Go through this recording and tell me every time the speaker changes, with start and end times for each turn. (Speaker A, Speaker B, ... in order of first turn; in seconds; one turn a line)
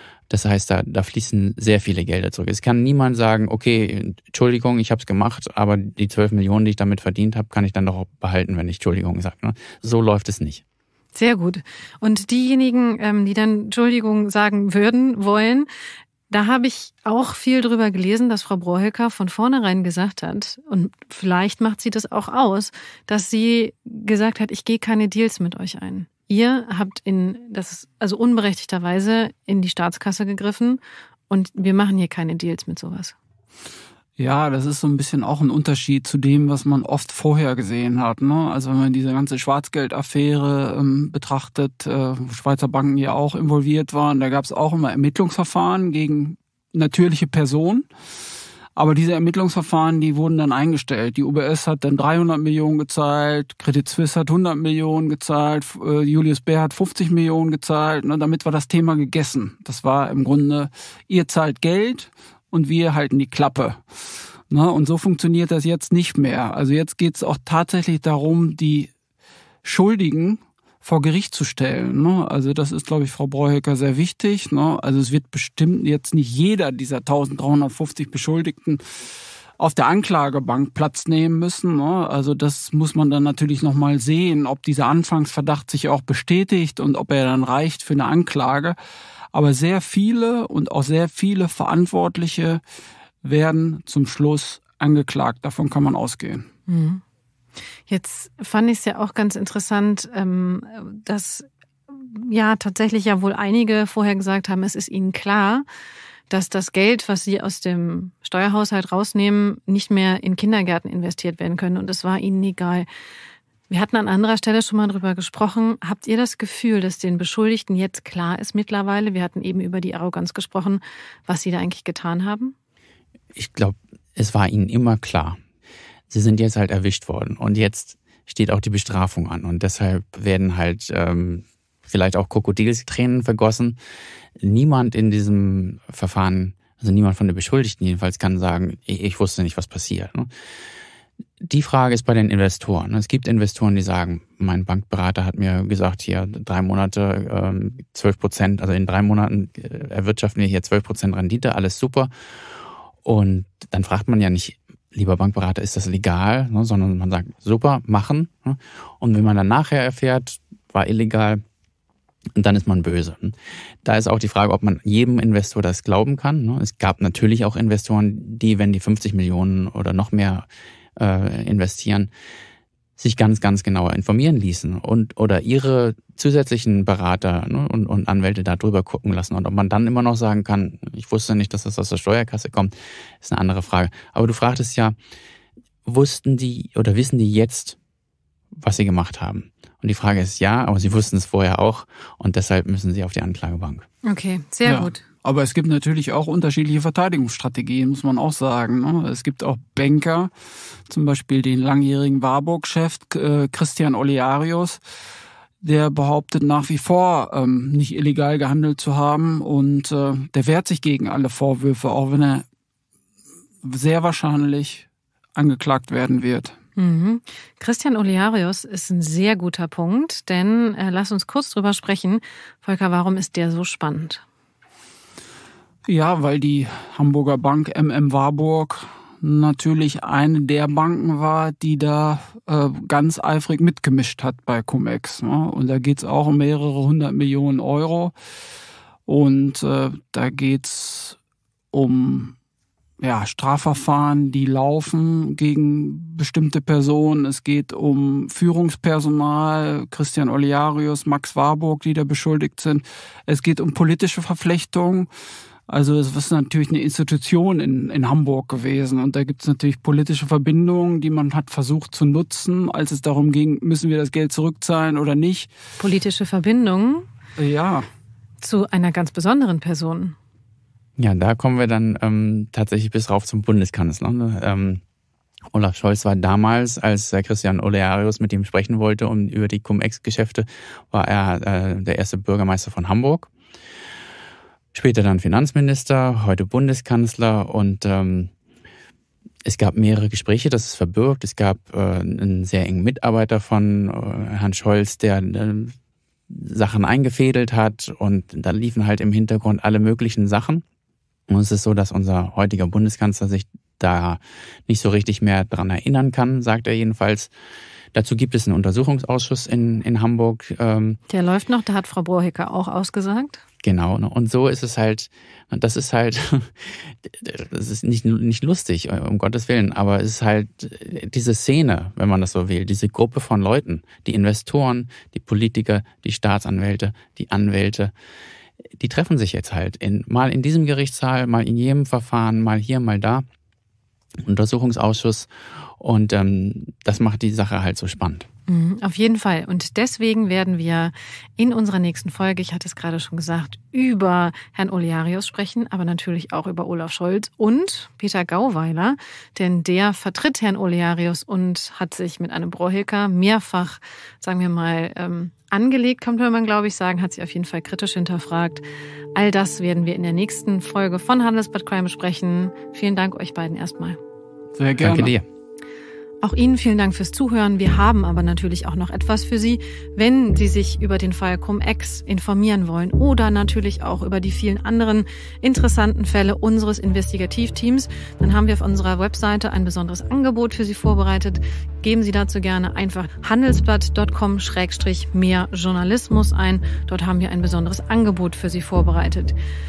Speaker A: 0.3-10.6
Speaker B: 11.1-15.7
Speaker B: 16.3-33.1
Speaker C: 34.2-47.9
Speaker C: 48.8-63.8
Speaker C: 64.5-68.9
Speaker C: 69.6-78.8
Speaker C: 79.6-88.8
Speaker C: 89.3-92.6
Speaker C: 93.2-96.5
Speaker B: 96.7-97.0
Speaker B: 97.9-105.6
Speaker B: 106.3-112.9
Speaker B: 113.7-122.5
Speaker A: 123.3-125.4
Speaker A: 126.1-133.8
Speaker A: 134.4-140.3
Speaker A: 141.4-152.1
Speaker A: 153.0-161.4
Speaker A: 162.3-172.1
Speaker A: 173.0-184.9
Speaker A: 185.8-187.8
Speaker A: 188.5-193.8
Speaker B: 194.1-195.0
Speaker C: 194.6-200.3
Speaker C: 200.9-204.8
Speaker C: 205.6-212.4
Speaker C: 213.6-216.6
Speaker B: 216.8-224.2
Speaker C: 225.8-238.1
Speaker C: 239.1-241.2
Speaker C: 241.7-242.3
Speaker C: 243.0-255.1
Speaker C: 255.7-265.5
Speaker B: 265.8-267.1
Speaker C: 267.4-267.9
Speaker B: 268.4-270.1
Speaker A: 271.0-274.8
Speaker A: 275.5-283.3
Speaker A: 284.7-288.3
Speaker A: 289.4-295.7
Speaker A: 296.3-300.6
Speaker A: 301.3-307.3
Speaker A: 307.9-311.0
Speaker B: 311.1-313.4
Speaker A: 313.6-327.9
Speaker A: 328.7-333.2
Speaker A: 334.2-338.3
Speaker B: 338.5-358.6
Speaker B: 359.1-364.0
Speaker C: 364.5-365.1
Speaker A: 364.8-365.2
Speaker B: 366.2-389.4